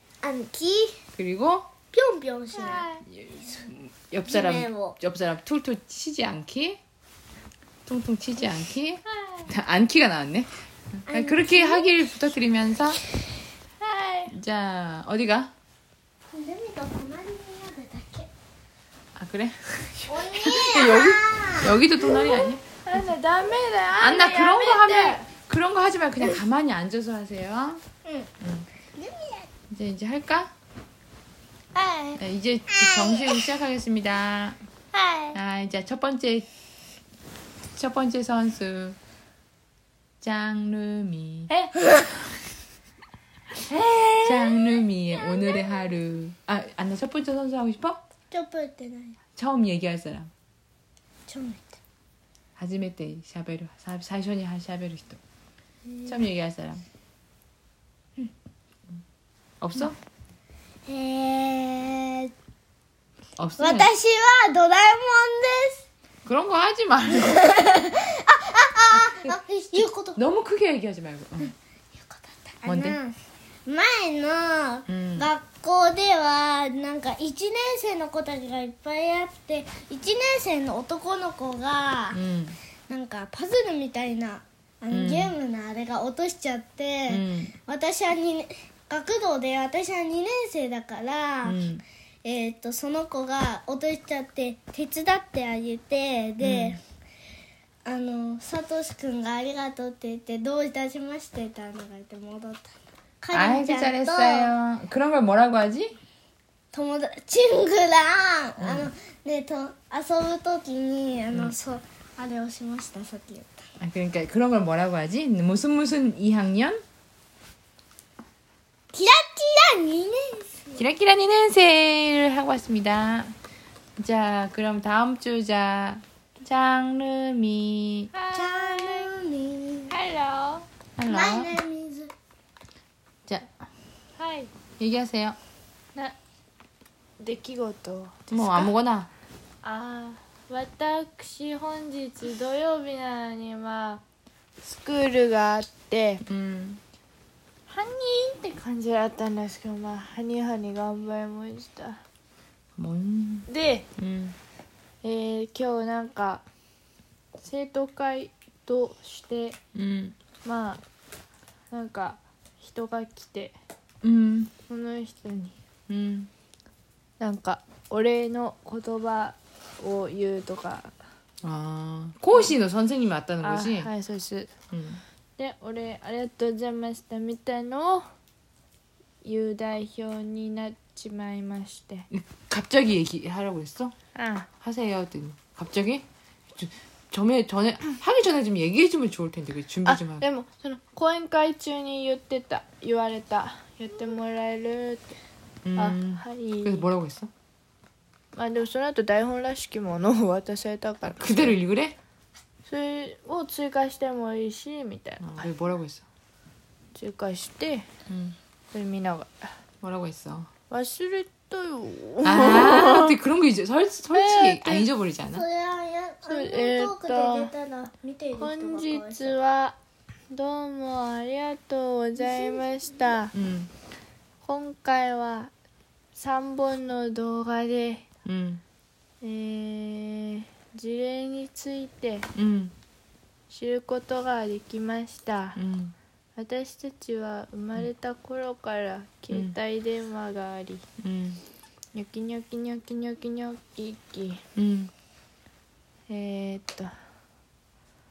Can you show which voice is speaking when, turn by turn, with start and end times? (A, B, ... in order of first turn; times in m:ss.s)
0:00.2-0:01.0 A
0:01.2-0:01.7 B
0:01.9-0:02.9 A
0:02.5-0:03.0 C
0:03.0-0:06.8 B
0:04.2-0:05.0 A
0:07.9-0:13.0 B
0:09.1-0:09.5 C
0:11.1-0:12.0 A
0:13.8-0:14.3 C
0:14.3-0:15.5 B
0:16.3-0:18.3 A
0:19.2-0:23.1 B
0:20.1-0:21.7 A
0:22.2-0:25.3 C
0:24.0-0:27.8 B
0:28.4-0:28.7 B
0:29.0-0:29.5 A
0:29.7-0:30.5 B
0:31.8-0:32.2 C
0:32.2-0:34.6 B
0:32.7-0:33.4 A
0:34.9-0:35.4 A
0:35.3-0:36.5 B
0:37.8-0:39.0 B
0:40.2-0:41.7 B
0:43.7-0:44.6 C
0:44.2-0:48.0 B
0:45.1-0:45.8 A
0:48.3-0:49.2 A
0:49.4-0:50.3 B
0:51.3-0:51.8 A
0:52.6-0:55.2 B
0:55.8-0:56.3 A
0:56.0-0:56.8 B
0:59.6-0:59.9 B
1:00.9-1:02.3 A
1:03.4-1:03.9 B
1:03.6-1:05.8 A
1:06.2-1:07.5 B
1:07.2-1:10.2 A
1:09.3-1:11.5 B
1:12.0-1:13.1 A
1:12.6-1:13.0 B
1:13.6-1:22.2 A
1:14.9-1:15.3 B
1:22.1-1:22.6 B
1:22.9-1:31.6 A
1:24.9-1:25.3 B
1:27.1-1:27.5 B
1:31.4-1:31.8 B
1:32.2-1:36.8 A
1:36.4-1:36.8 B
1:37.8-1:42.7 A
1:43.2-1:44.5 A
1:43.3-1:46.0 B
1:46.7-1:53.6 A
1:48.6-1:48.9 B
1:51.3-1:51.6 B
1:53.8-1:56.8 B
1:58.9-2:00.8 A
2:00.8-2:03.3 B
2:04.0-2:08.1 B
2:08.1-2:09.1 C
2:08.3-2:09.9 A
2:09.9-2:10.7 C
2:11.0-2:11.6 B
2:11.1-2:12.1 A
2:14.2-2:14.5 C
2:14.8-2:15.4 B
2:17.2-2:18.7 C
2:18.3-2:19.1 B
2:19.6-2:24.0 C
2:24.6-2:26.2 C
2:26.2-2:26.8 B
2:27.7-2:32.0 C
2:32.8-2:34.4 B
2:33.5-2:33.8 C
2:35.0-2:36.4 C
2:37.4-2:39.6 C
2:39.7-2:40.2 B
2:40.4-2:40.8 C
2:41.7-2:43.6 C
2:44.0-2:44.5 B
2:44.7-2:45.6 C
2:45.9-2:46.3 B
2:47.2-2:50.9 C
2:51.4-2:53.9 B
2:53.4-2:54.5 C
2:54.7-2:55.0 B
2:55.4-2:58.0 C
2:59.2-3:02.1 C
3:02.1-3:03.9 B
3:04.1-3:04.5 C
3:04.6-3:06.0 B
3:06.6-3:10.2 B
3:09.8-3:15.1 C
3:15.6-3:17.3 B
3:15.8-3:16.9 C
3:18.3-3:21.6 C
3:21.0-3:22.0 B
3:22.6-3:25.5 C
3:25.2-3:26.0 B
3:26.9-3:27.8 C
3:28.1-3:28.4 B
3:28.7-3:29.5 C
3:29.8-3:30.5 B
3:30.7-3:33.1 C
3:32.2-3:35.4 B
3:34.1-3:34.8 C
3:35.3-3:39.4 A
3:36.2-3:37.5 C
3:38.4-3:39.8 C
3:40.3-3:43.3 C
3:42.2-3:42.6 A
3:43.3-3:43.7 B
3:44.4-3:45.5 C
3:46.1-3:48.0 C
3:48.2-3:48.6 B
3:49.2-3:52.3 C
3:52.3-3:52.7 B
3:53.5-3:55.6 C
3:55.6-3:55.9 B
3:56.4-4:00.8 C
3:59.3-3:59.6 B
4:01.0-4:01.4 B
4:01.9-4:04.4 C
4:04.6-4:04.9 B
4:06.1-4:06.9 C